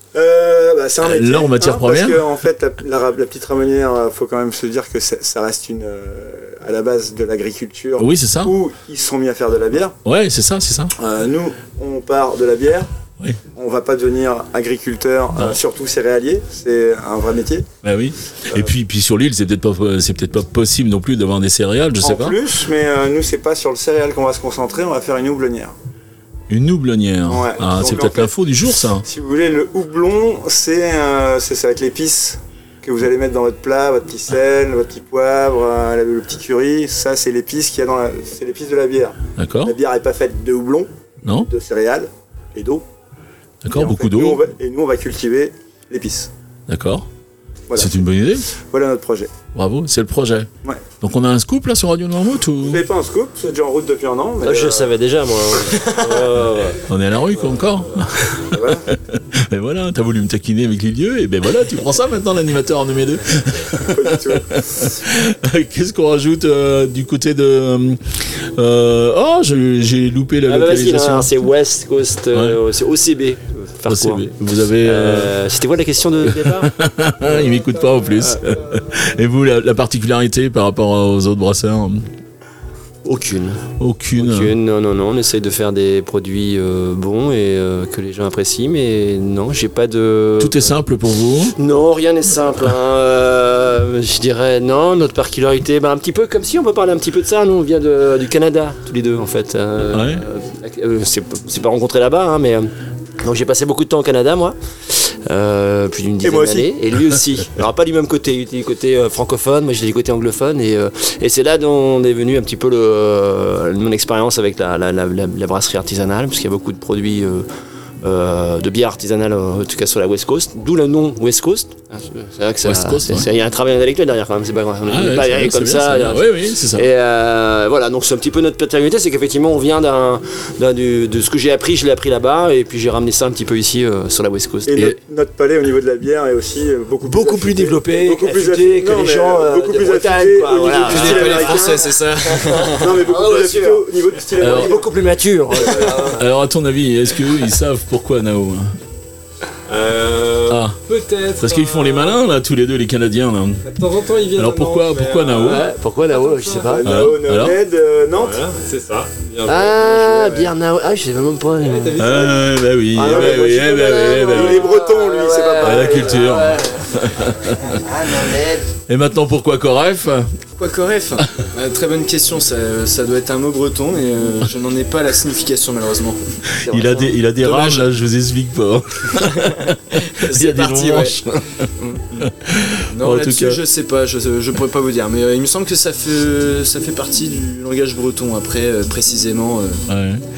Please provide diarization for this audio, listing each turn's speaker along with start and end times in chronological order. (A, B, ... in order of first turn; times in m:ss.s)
0:00.1-0:10.0 A
0:01.0-0:02.2 B
0:08.0-0:08.5 B
0:10.0-0:10.9 B
0:11.0-0:12.9 A
0:13.5-0:17.7 A
0:17.8-0:22.4 B
0:22.0-0:25.7 A
0:26.5-0:29.0 B
0:27.3-0:28.3 A
0:29.0-0:42.8 A
0:39.4-0:39.7 B
0:43.6-0:44.4 B
0:43.7-0:46.3 A
0:46.7-0:47.1 B
0:47.7-0:49.3 A
0:47.8-0:48.5 B
0:49.5-0:50.5 B
0:51.0-0:52.8 B
0:52.6-0:54.9 A
0:54.4-0:56.8 C
0:56.8-1:11.4 B
0:58.4-0:58.8 A
1:03.9-1:04.5 A
1:10.4-1:14.3 C
1:12.3-1:12.6 B
1:13.8-1:15.4 B
1:14.8-1:16.7 C
1:16.2-1:22.1 B
1:23.0-1:30.8 C
1:23.8-1:24.5 B
1:30.4-1:31.6 B
1:31.5-1:57.4 C
1:39.9-1:40.2 B
1:46.2-1:46.7 A
1:58.0-2:15.0 C
2:02.6-2:03.3 B
2:04.8-2:06.9 B
2:14.6-2:21.9 A
2:17.0-2:23.8 C
2:20.8-2:23.0 D
2:22.5-2:24.9 A
2:24.4-2:26.2 C
2:24.4-2:24.7 B
2:25.6-2:26.1 A
2:25.8-2:28.7 B
2:29.6-2:32.2 E
2:30.5-2:30.8 B
2:31.4-2:33.6 B
2:33.6-2:36.6 E
2:34.3-2:35.7 B
2:35.4-2:36.9 C
2:36.6-2:38.4 A
2:36.8-2:37.6 B
2:38.1-2:40.5 E
2:39.4-2:42.2 C
2:41.6-2:42.4 E
2:42.0-2:44.7 B
2:42.9-2:47.0 C
2:43.0-2:46.3 A
2:45.6-2:47.8 B
2:47.6-2:48.7 C
2:48.9-2:50.3 B
2:50.6-2:56.2 D
2:56.6-3:03.6 B
2:56.6-2:57.2 C
2:57.4-2:57.8 D
2:59.2-3:01.2 D
3:01.8-3:02.3 D
3:02.9-3:09.8 D
3:09.9-3:10.2 B